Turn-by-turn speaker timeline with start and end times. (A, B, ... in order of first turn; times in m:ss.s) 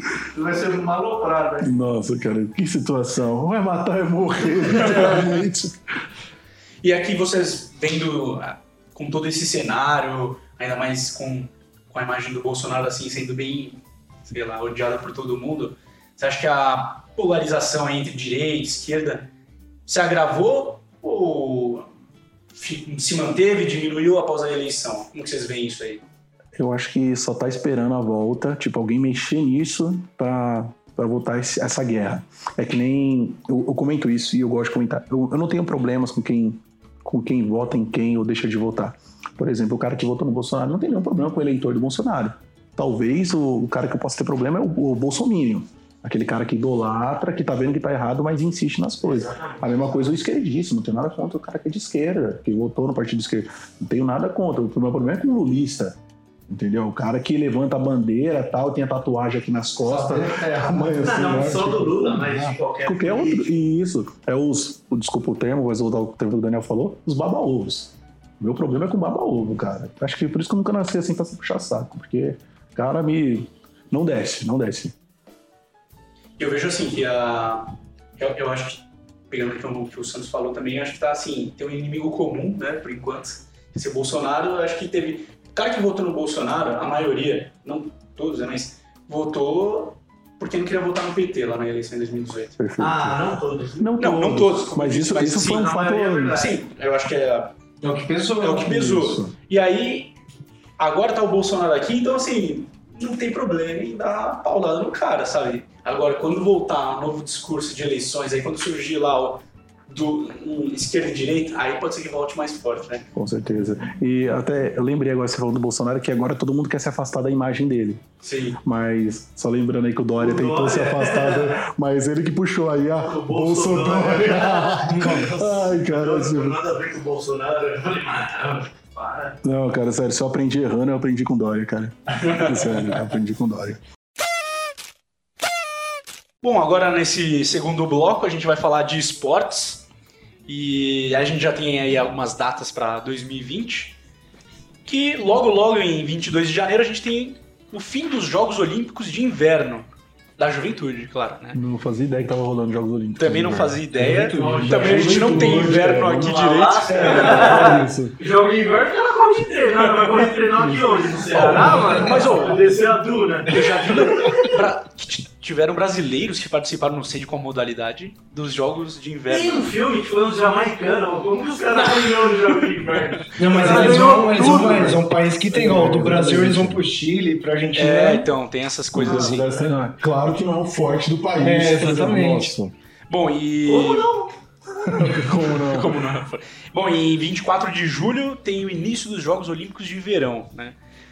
0:00.3-0:01.7 A
0:01.6-0:05.8 B
0:04.8-0:05.4 C
0:06.8-0:19.3 C
0:19.9-0:21.9 C
0:22.5-0:26.0 C
0:26.6-0:56.0 B
0:49.0-0:50.1 A
0:56.5-1:14.9 B
0:59.8-1:03.5 A
1:16.4-1:32.6 C
1:32.6-1:36.4 B
1:32.8-1:33.9 A
1:34.0-1:35.8 C
1:35.4-1:36.6 A
1:36.3-1:37.5 C
1:37.8-1:38.9 D
1:38.4-1:40.1 C
1:38.6-1:39.3 B
1:40.8-1:53.1 C
1:53.1-1:58.0 B
1:58.2-1:58.6 C
1:58.6-2:06.6 B
2:00.2-2:01.6 A
2:03.0-2:09.4 A
2:09.4-2:13.8 B
2:12.1-2:13.0 C
2:16.4-2:19.8 C
2:20.5-2:24.0 C
2:24.8-2:31.6 C
2:31.5-2:38.2 B
2:33.2-2:37.7 C
2:33.9-2:35.8 D
2:34.3-2:35.3 A
2:36.0-2:44.5 A
2:39.9-2:40.2 C
2:40.6-2:42.0 B
2:41.3-2:42.8 C
2:41.8-2:42.1 D
2:43.5-2:49.7 C
2:43.8-2:44.6 D
2:49.3-2:54.8 A
2:51.9-2:55.0 C
2:53.4-2:58.3 D
2:54.9-2:56.8 B
2:57.7-2:59.5 C
2:58.9-3:02.7 B
2:59.0-2:59.7 A
3:01.4-3:02.5 D
3:03.1-3:04.1 C
3:03.6-3:04.3 A
3:04.8-3:06.0 B
3:05.4-3:10.8 C